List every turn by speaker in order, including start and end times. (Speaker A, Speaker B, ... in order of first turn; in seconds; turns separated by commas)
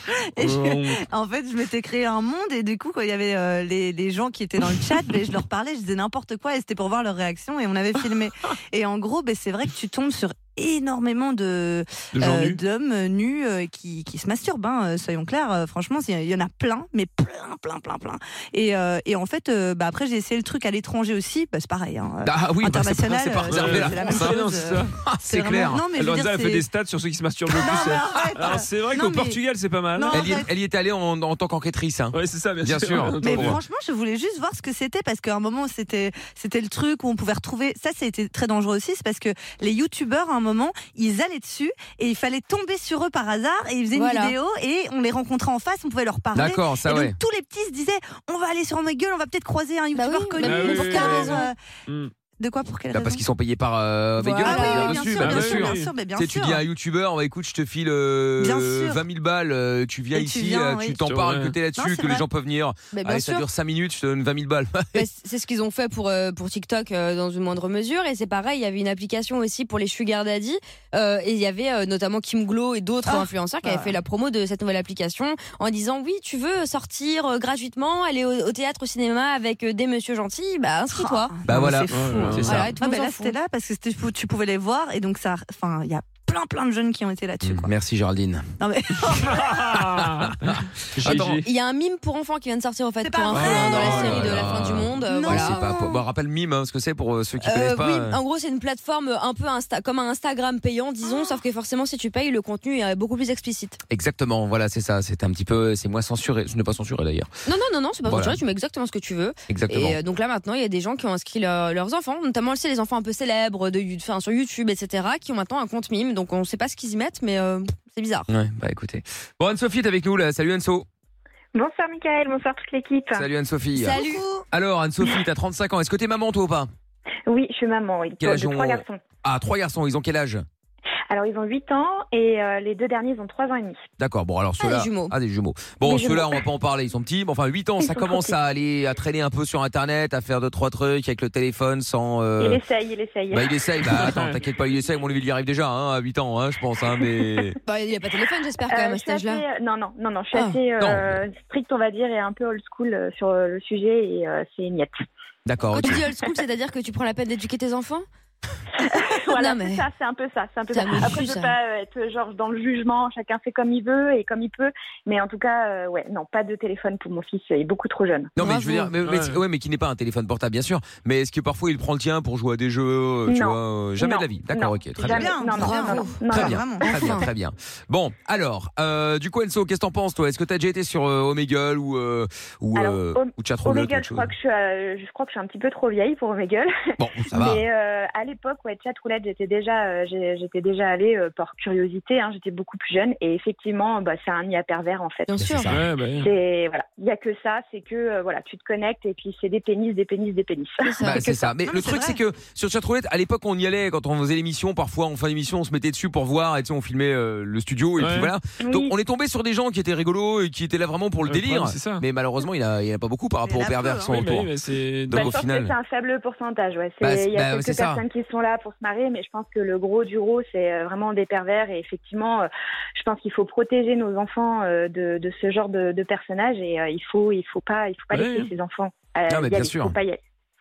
Speaker A: 0.3-26.7, Speaker B: 0.4-1.0, Speaker B: 12.2-12.6, Speaker C: 22.2-24.4, Speaker B: 23.5-24.9, Speaker C: 25.0-25.8, Speaker B: 25.9-30.3, Speaker A: 27.5-29.4, Speaker A: 30.0-30.5, Speaker C: 30.1-33.6, Speaker B: 32.1-33.6, Speaker A: 33.2-51.5, Speaker D: 43.9-44.3, Speaker C: 46.3-47.2, Speaker D: 49.9-51.5, Speaker B: 50.4-52.1, Speaker A: 52.4-53.2, Speaker C: 52.9-65.0, Speaker D: 54.2-55.1, Speaker A: 54.4-56.6, Speaker B: 55.1-55.9, Speaker A: 58.4-59.0, Speaker A: 60.1-61.0, Speaker B: 61.0-61.5, Speaker A: 61.8-62.2, Speaker D: 62.9-63.5, Speaker D: 65.0-81.4, Speaker A: 73.1-74.0, Speaker A: 80.9-87.7, Speaker C: 81.5-82.7, Speaker B: 81.9-82.7, Speaker D: 82.5-83.4, Speaker C: 87.4-88.5, Speaker A: 88.6-89.8, Speaker B: 89.3-91.5, Speaker C: 89.8-91.4, Speaker D: 91.4-95.6, Speaker A: 93.0-94.5, Speaker B: 93.3-94.3, Speaker C: 93.3-98.2, Speaker A: 95.1-96.0, Speaker D: 97.4-103.8, Speaker C: 103.9-107.3, Speaker D: 107.5-118.3, Speaker C: 108.1-108.4, Speaker C: 109.5-110.0, Speaker C: 118.3-120.9, Speaker E: 121.5-123.2, Speaker C: 123.1-124.0, Speaker D: 123.8-124.2, Speaker A: 123.9-124.5, Speaker C: 124.5-126.7, Speaker E: 127.3-129.0, Speaker C: 128.2-130.4, Speaker E: 131.1-133.8, Speaker C: 134.0-142.6, Speaker D: 134.6-135.2, Speaker E: 135.8-136.4, Speaker E: 137.8-138.3, Speaker E: 142.4-143.6, Speaker C: 143.3-147.6, Speaker B: 143.9-144.4, Speaker D: 147.7-149.4, Speaker E: 148.7-155.0, Speaker D: 150.3-150.6, Speaker C: 150.8-151.2, Speaker C: 155.5-156.0, Speaker D: 155.8-158.1, Speaker E: 158.8-168.3, Speaker D: 159.3-159.8, Speaker D: 160.7-161.6, Speaker C: 168.4-175.4, Speaker D: 168.4-168.9, Speaker B: 169.0-169.4, Speaker E: 173.3-177.1, Speaker A: 175.1-176.9, Speaker D: 175.6-176.3, Speaker C: 176.3-184.3, Speaker D: 176.8-177.3, Speaker E: 182.8-195.3, Speaker C: 187.0-187.6, Speaker D: 195.3-195.7, Speaker C: 195.4-195.9, Speaker B: 195.7-196.3, Speaker E: 196.2-201.0, Speaker D: 200.8-201.4, Speaker C: 201.0-214.5, Speaker A: 201.7-202.2, Speaker B: 208.0-208.3, Speaker E: 208.6-208.9, Speaker B: 211.3-212.0, Speaker A: 213.5-214.3, Speaker B: 214.1-215.4, Speaker C: 215.1-215.7, Speaker E: 215.1-230.2, Speaker C: 217.0-218.0, Speaker B: 228.1-228.5, Speaker C: 229.3-230.0